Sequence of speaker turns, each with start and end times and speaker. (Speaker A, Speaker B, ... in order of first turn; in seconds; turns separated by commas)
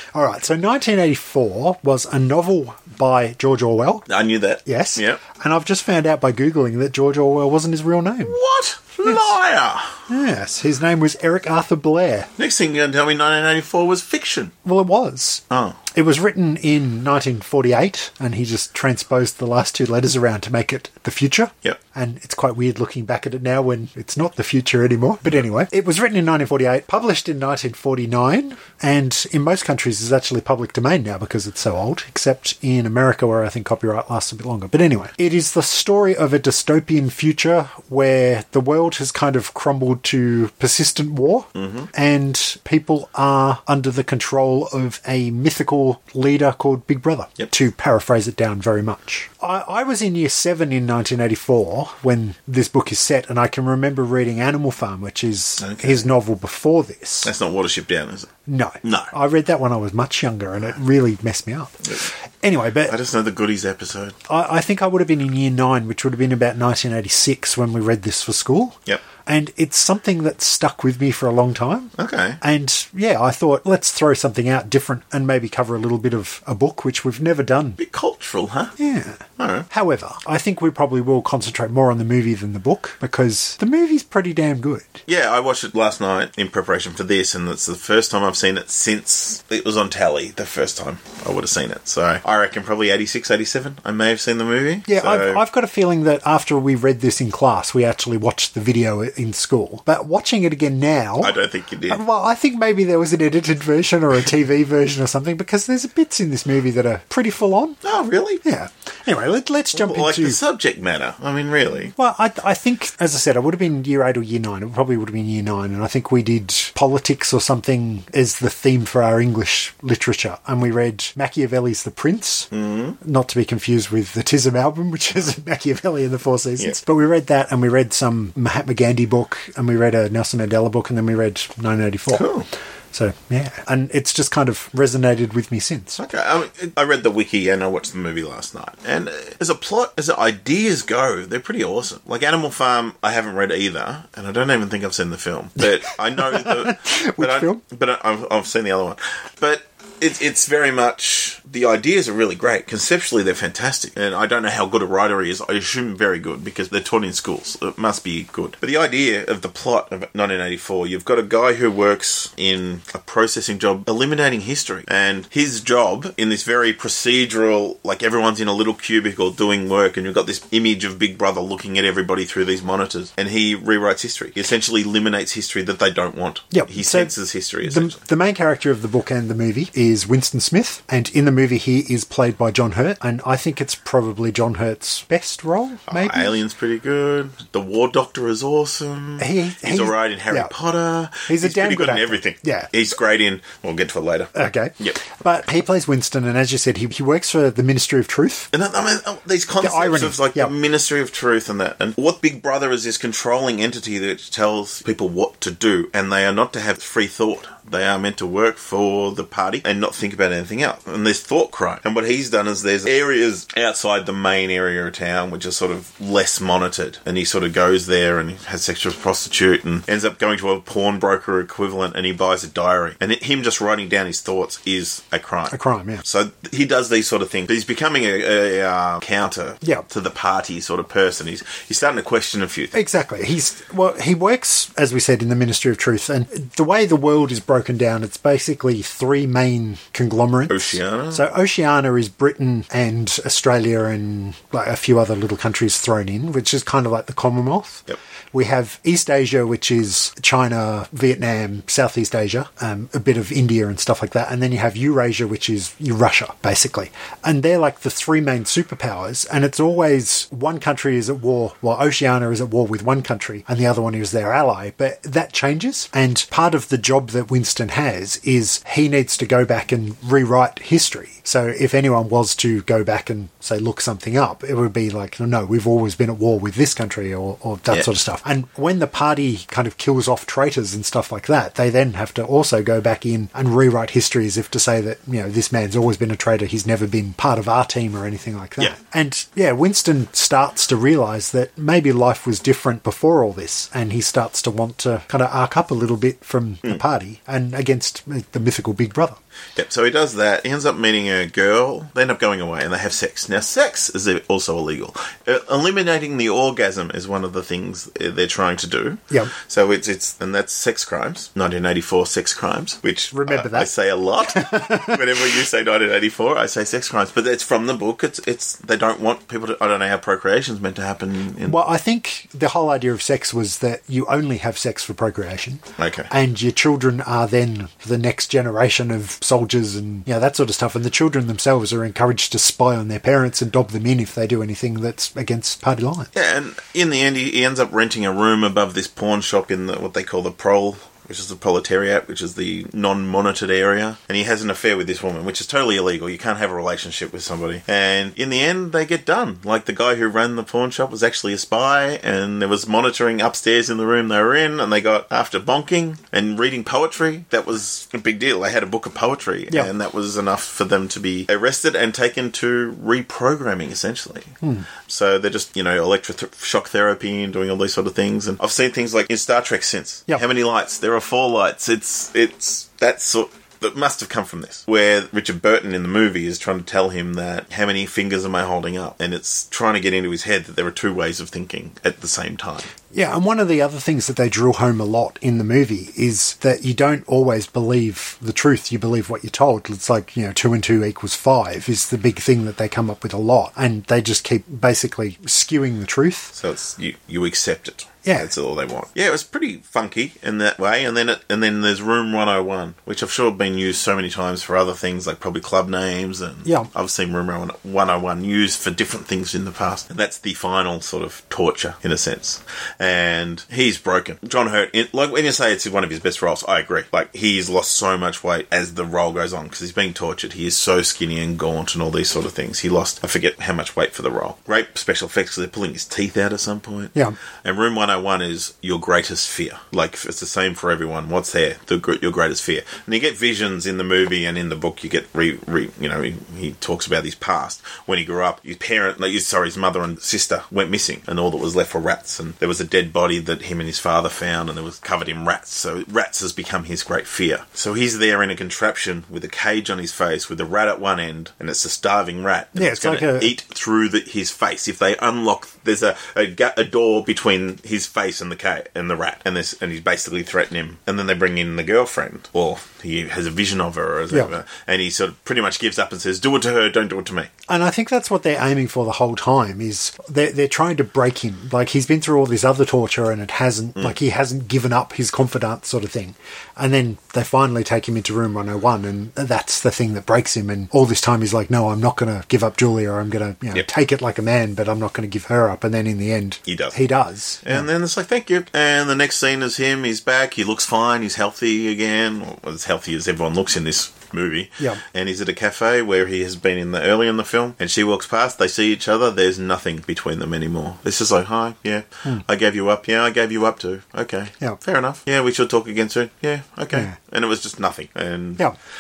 Speaker A: 0.1-4.1, Speaker B: 4.1-5.2, Speaker A: 4.7-8.4, Speaker B: 8.2-10.0, Speaker A: 10.1-12.3, Speaker B: 12.4-14.5, Speaker A: 14.7-57.3, Speaker B: 15.5-15.8, Speaker B: 41.5-41.9, Speaker B: 55.6-56.0, Speaker B: 57.2-58.3, Speaker A: 58.5-63.0, Speaker B: 58.8-59.1, Speaker B: 62.9-64.2, Speaker A: 64.3-77.8, Speaker B: 72.0-72.4, Speaker B: 77.8-78.8, Speaker A: 78.8-85.0, Speaker B: 79.4-79.7, Speaker B: 85.1-95.4, Speaker A: 94.9-101.4, Speaker B: 101.2-102.0, Speaker A: 101.9-107.8, Speaker B: 107.8-108.4, Speaker A: 108.4-110.4, Speaker B: 109.7-111.9, Speaker A: 112.0-132.3, Speaker B: 122.5-123.0, Speaker B: 132.1-132.5, Speaker A: 132.9-136.0, Speaker B: 136.0-178.0, Speaker A: 146.2-147.6, Speaker A: 176.5-177.1, Speaker A: 177.7-186.4, Speaker B: 185.9-195.0, Speaker A: 189.2-190.5, Speaker A: 191.3-192.7, Speaker A: 194.3-198.5, Speaker B: 198.5-232.8, Speaker A: 199.6-200.5, Speaker A: 225.5-226.0, Speaker A: 232.7-299.2, Speaker B: 240.5-241.3, Speaker B: 299.6-321.6, Speaker A: 313.1-313.7, Speaker A: 314.3-315.2, Speaker A: 321.4-336.1, Speaker B: 325.8-326.1, Speaker B: 336.1-382.7, Speaker A: 364.4-364.7, Speaker A: 382.9-396.4, Speaker B: 396.4-467.3, Speaker A: 452.6-453.4, Speaker A: 467.5-487.7, Speaker B: 486.5-486.8, Speaker B: 487.4-508.4